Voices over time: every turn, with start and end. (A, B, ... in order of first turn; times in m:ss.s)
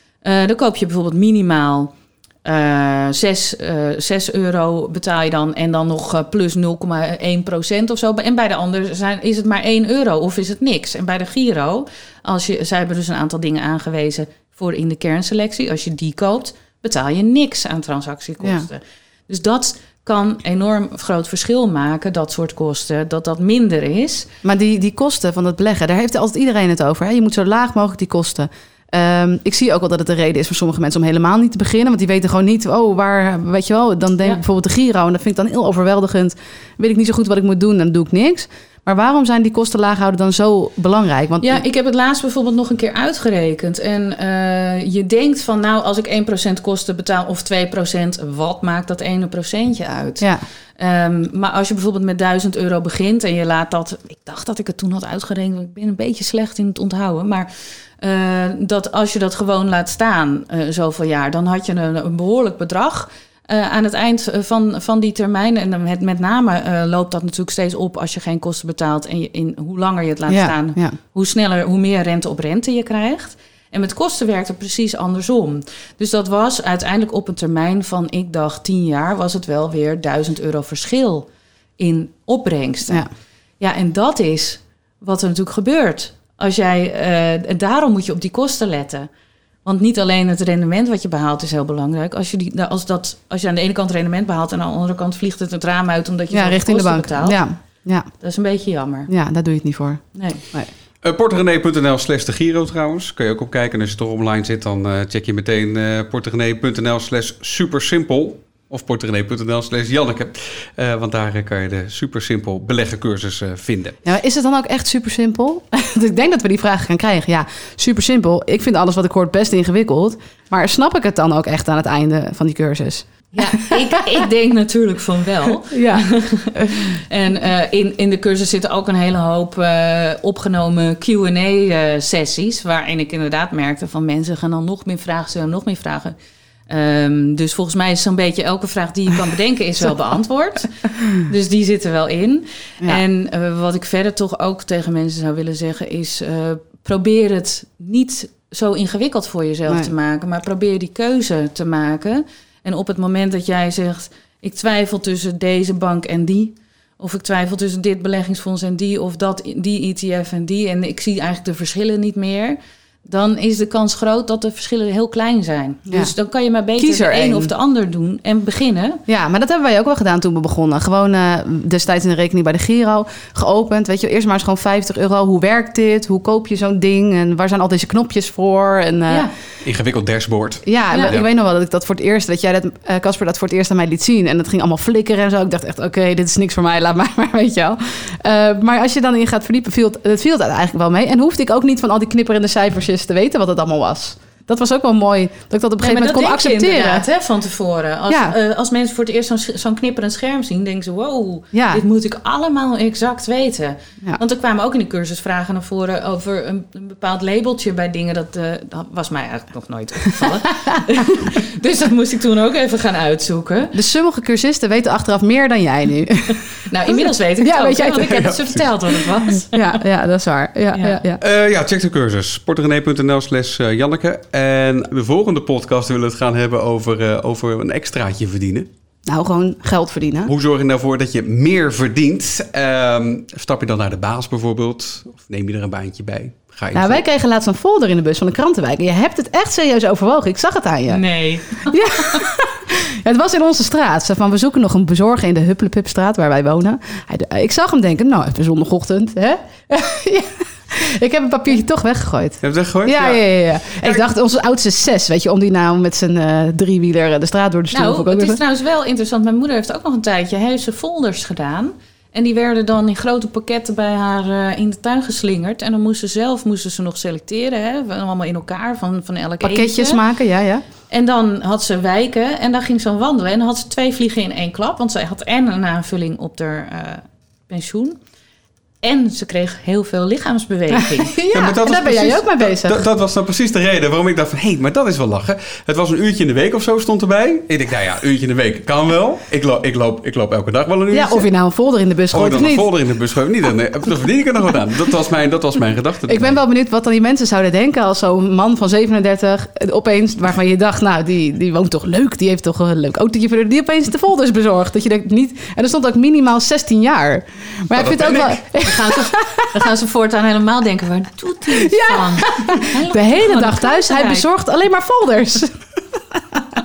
0:00.2-0:24.3 A
0:18.4-0:18.7 B
0:24.4-0:41.6 B
0:41.4-0:57.5 A
0:58.0-1:23.1 A
1:10.3-1:11.0 B
1:23.6-1:29.1 A
1:29.6-1:37.4 A
1:36.3-1:38.1 B
1:38.2-1:39.1 A
1:39.1-1:40.7 B
1:40.1-1:40.4 A
1:41.0-1:54.0 C
1:54.0-2:04.3 B
2:03.3-2:16.2 A
2:05.7-2:06.0 B
2:16.7-2:49.0 A
2:46.8-2:47.5 B
2:49.1-2:59.3 B
2:59.6-3:01.2 C
3:00.6-3:17.1 B
3:00.9-3:01.2 A
3:15.8-3:33.8 A
3:18.1-3:18.4 B
3:21.5-3:21.8 B
3:33.7-3:38.3 B
3:36.7-3:39.8 A
3:38.1-3:38.6 C
3:39.4-3:41.2 B
3:40.7-3:41.0 A
3:41.2-3:48.7 C
3:49.1-3:50.3 B
3:50.3-3:57.0 C
3:56.7-4:01.0 B
4:00.9-4:02.2 A
4:01.7-4:18.4 B
4:12.4-4:14.0 C
4:17.7-4:30.0 A
4:29.4-4:30.6 B
4:30.9-4:38.0 A
4:38.8-4:41.2 A
4:40.7-4:42.8 B
4:41.3-4:51.3 C
4:50.9-4:52.7 B
4:52.1-4:56.4 C
4:56.1-5:09.6 B
5:07.8-5:08.4 C
5:08.6-5:14.3 A
5:11.6-5:15.6 B